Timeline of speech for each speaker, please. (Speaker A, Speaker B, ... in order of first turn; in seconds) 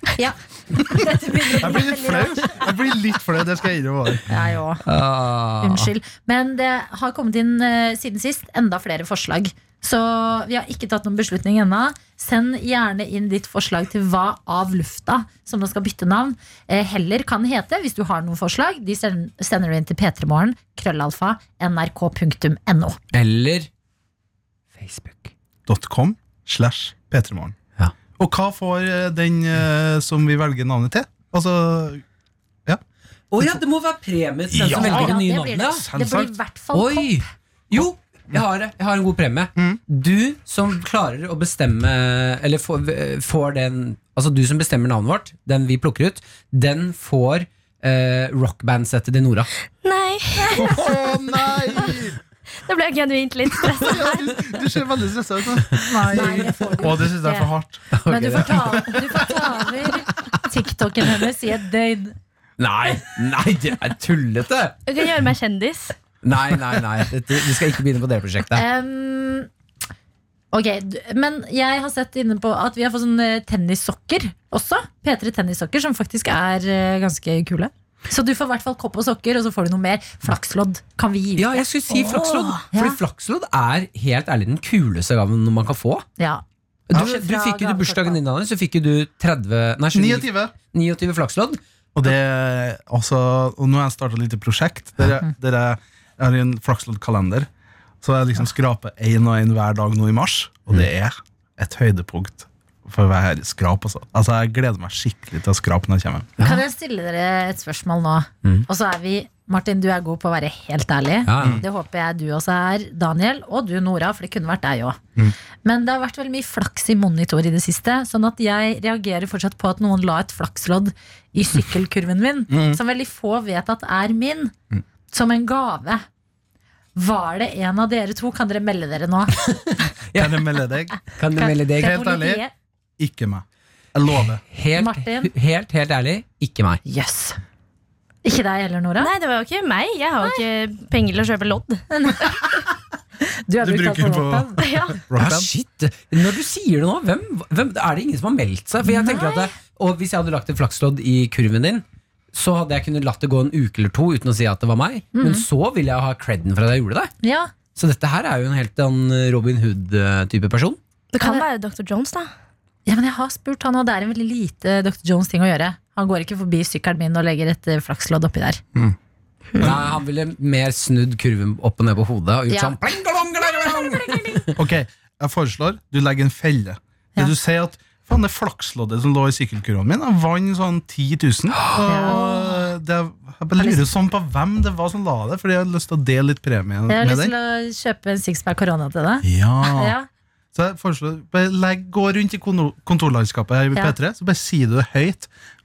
Speaker A: 0.2-2.5, 4.3-4.8, 5.6-23.0, 34.6-37.2, 50.4-50.7, 55.8-57.5, 58.0-62.1, 68.5-69.5, 70.5-82.1, 82.7-83.0, 86.2-88.2, 106.4-115.0, 115.6-124.5, 125.1-126.0, 127.0-129.4, 131.3-132.5, 134.8-135.3, 136.8-137.4, 138.2-139.1, 141.9-142.2, 143.5-144.7, 148.8-149.5, 155.1-155.4, 157.2-157.5, 162.8-168.6, 172.5-172.8, 173.4-174.5, 181.9-182.7, 183.6-183.9, 186.9-190.1
Speaker B: 1.5-4.3, 25.7-27.5, 28.2-32.0, 34.5-36.4, 50.5-52.2, 53.6-59.3, 89.9-90.5, 92.0-97.5, 98.0-106.3, 111.4-111.6, 122.5-122.8, 130.1-131.0, 131.8-132.4, 133.0-134.4, 143.6-145.5, 169.6-169.9, 174.6-187.3, 189.2-189.9, 190.5-195.3
Speaker C: 4.8-5.9, 23.1-23.7, 24.8-25.3, 33.3-35.9, 36.7-49.5, 57.9-59.1, 62.6-64.8, 66.2-68.6, 81.3-86.0, 86.9-91.6, 106.4-106.6, 111.2-111.6, 129.5-130.5, 131.1-132.0, 134.5-136.8, 145.2-157.1, 157.7-160.8, 169.6-174.5, 181.6-181.9
Speaker D: 49.8-50.9, 52.7-54.3, 64.9-66.0, 82.0-82.6, 139.0-141.9, 144.6-145.0, 161.1-162.3